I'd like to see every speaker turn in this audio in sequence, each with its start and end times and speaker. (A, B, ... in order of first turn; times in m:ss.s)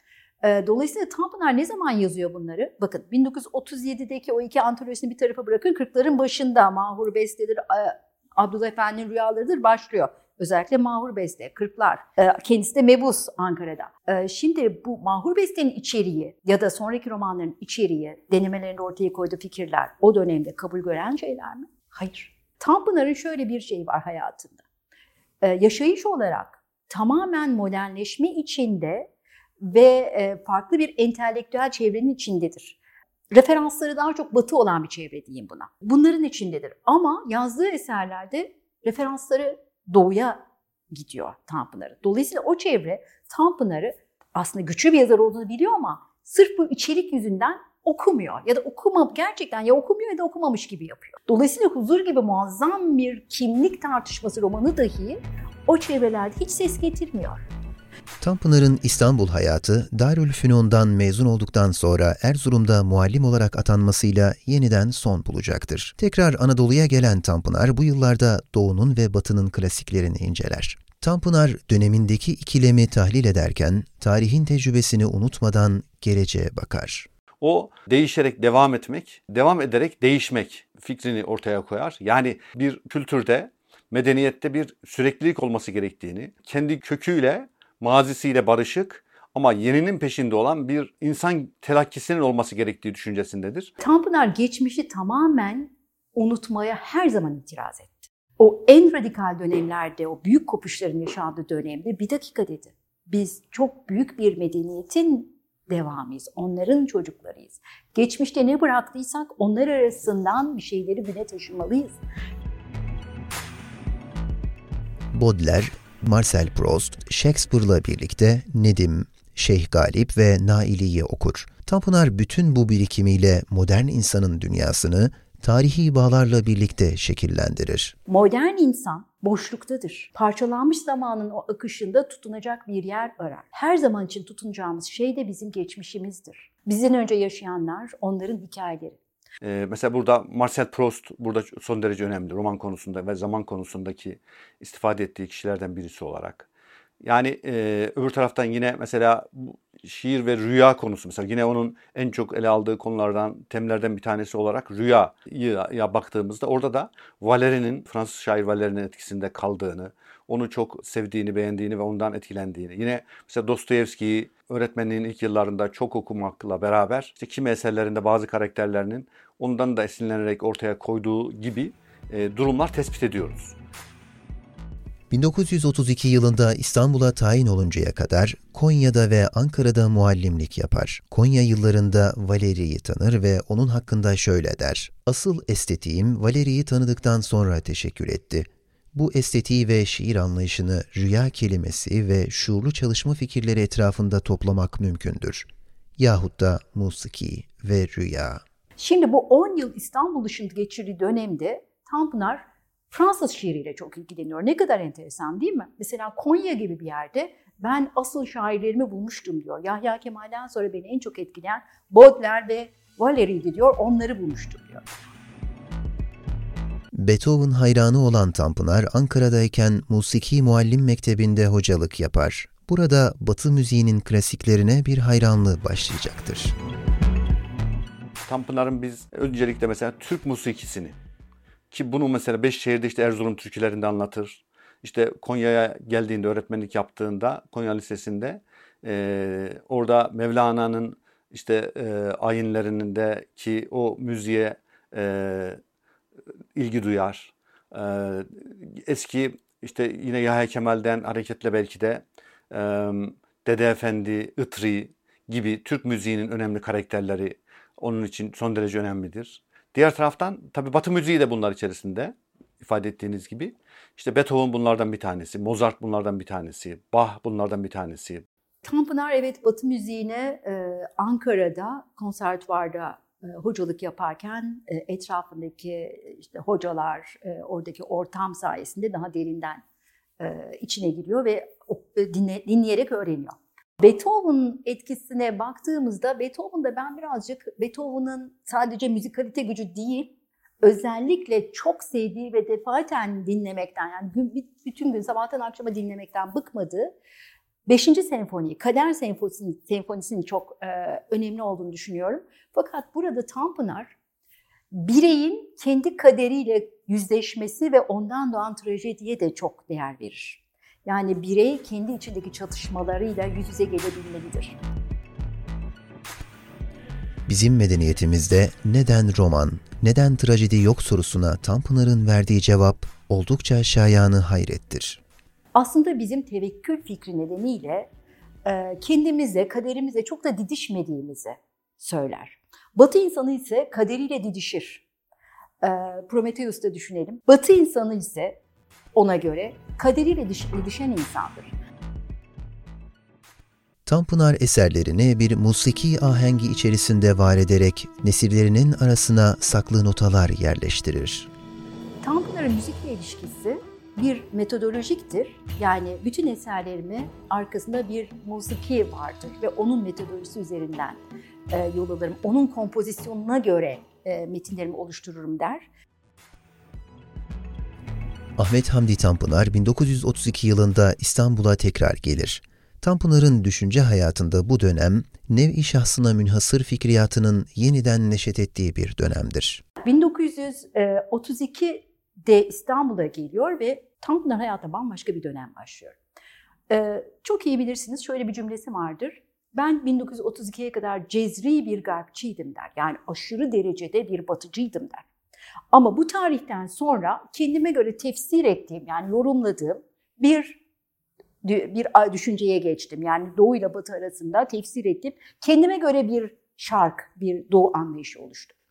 0:00.4-0:24.6 A
0:25.4-0:29.1 A
0:29.6-0:32.8 A
0:33.3-0:57.5 A
0:58.2-1:17.1 B
1:17.4-1:33.7 C
1:33.8-1:52.0 A
1:55.1-2:07.9 B
2:08.1-2:19.0 A
2:19.4-2:26.5 C
2:27.0-2:53.6 C
2:55.1-3:15.5 B
3:16.0-3:18.4 B
3:18.8-3:34.9 A
3:36.9-3:46.6 B
3:48.3-3:51.0 C
3:51.7-4:05.6 C
4:06.6-4:28.2 C
4:28.6-4:39.6 A
4:40.2-4:56.9 A
4:57.7-5:04.0 A
5:04.7-5:14.6 A
5:17.3-5:25.0 B
5:25.6-5:27.9 A
5:28.4-5:34.8 A
5:35.6-5:38.4 A
5:38.9-5:41.5 A
5:43.9-5:51.3 B
5:52.0-6:05.7 A
6:08.4-6:19.6 B
6:19.8-6:26.0 A
6:26.7-6:35.1 A
6:35.7-6:40.6 A
6:41.4-6:48.6 A